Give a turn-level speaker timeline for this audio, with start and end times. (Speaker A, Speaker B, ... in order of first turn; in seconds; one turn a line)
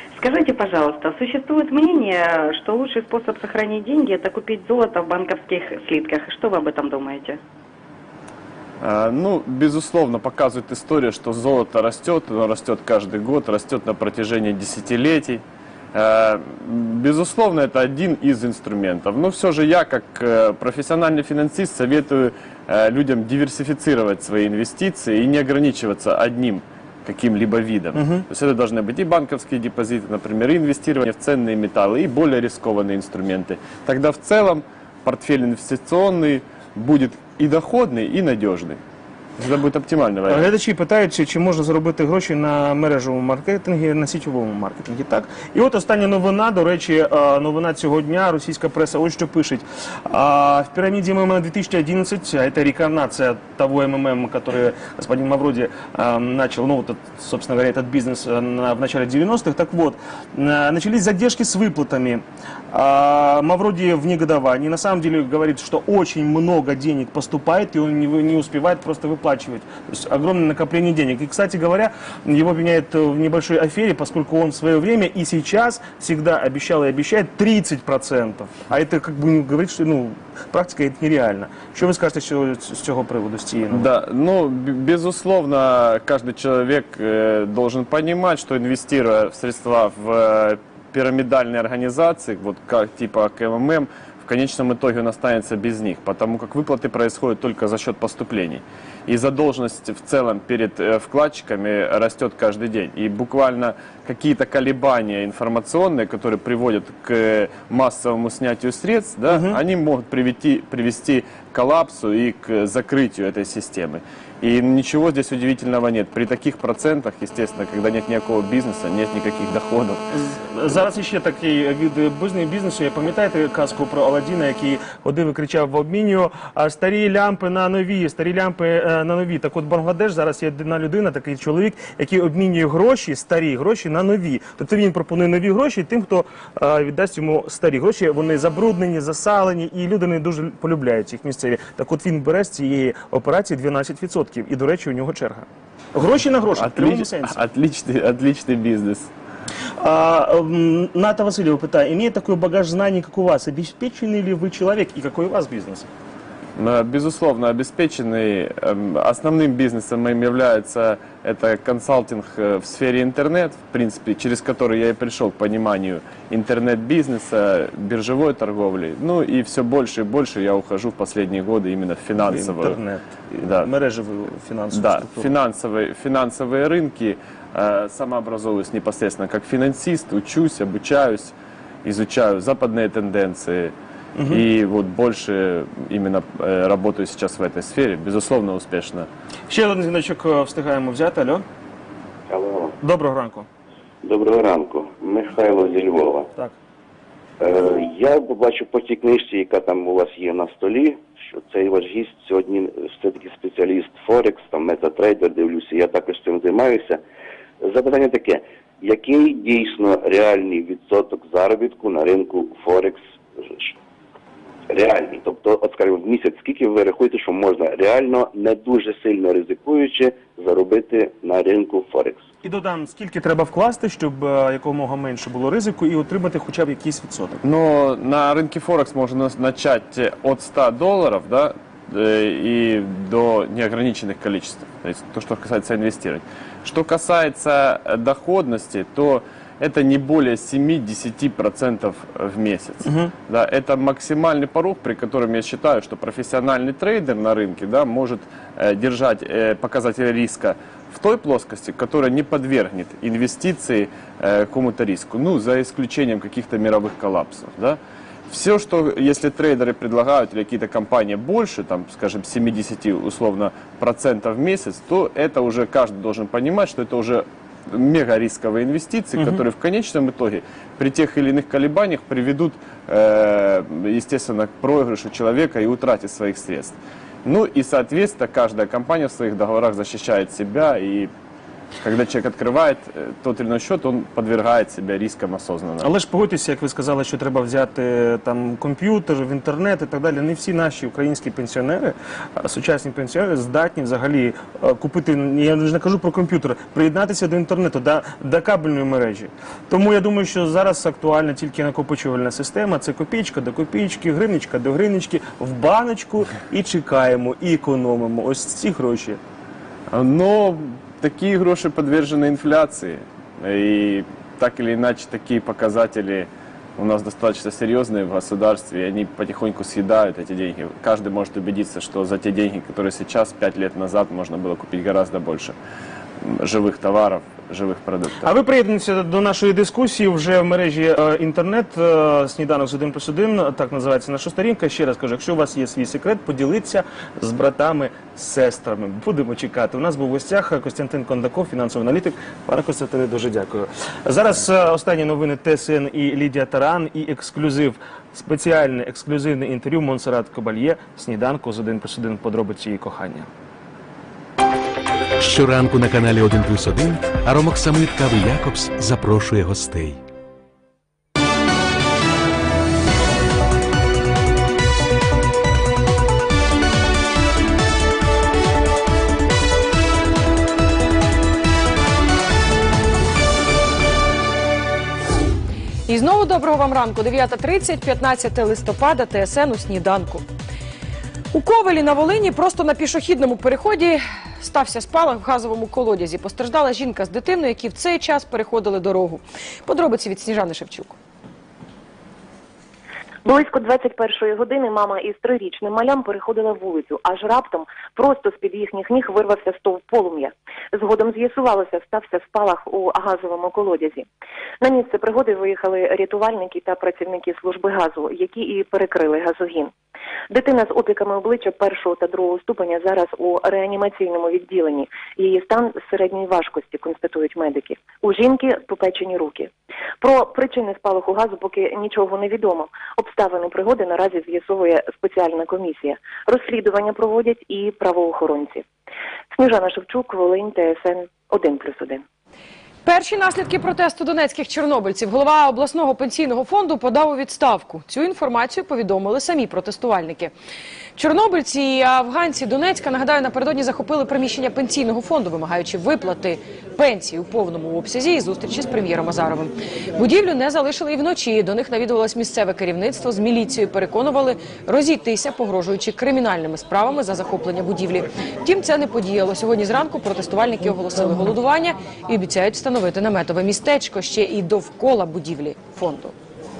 Speaker A: 0.2-7.4
Speaker B: 8.8-15.4
Speaker B: 15.9-38.8
Speaker C: 27.9-28.2
Speaker B: 39.4-40.5
Speaker C: 40.3-83.9
Speaker B: 83.7-120.2
Speaker C: 109.3-109.6
Speaker C: 120.4-147.4
Speaker B: 146.6-149.1
Speaker C: 149.8-155.9
Speaker B: 156.6-172.8
Speaker C: 172.2-175.3
Speaker B: 173.4-173.7
Speaker B: 174.7-183.7
Speaker C: 184.2-184.4
Speaker B: 184.3-189.1
Speaker C: 189.5-191.4
Speaker D: 192.3-192.7
Speaker C: 192.8-193.5
Speaker D: 194.0-196.3
Speaker D: 197.4-207.0
Speaker D: 207.6-213.7
Speaker D: 214.7-222.2
Speaker C: 222.4-227.4
Speaker B: 227.4-281.1
Speaker C: 242.8-243.1
Speaker B: 281.8-285.9
Speaker C: 285.8-309.2
Speaker B: 309.9-325.6
Speaker B: 326.2-328.3
Speaker C: 328.2-353.3
Speaker E: 355.4-359.9
Speaker F: 375.9-380.2
Speaker F: 381.3-391.0
Speaker G: 393.2-404.1
Speaker G: 404.6-409.7
Speaker G: 410.3-419.5
Speaker G: 420.0-428.6
Speaker G: 429.3-432.0
Speaker F: 432.9-440.3
Speaker F: 441.0-466.1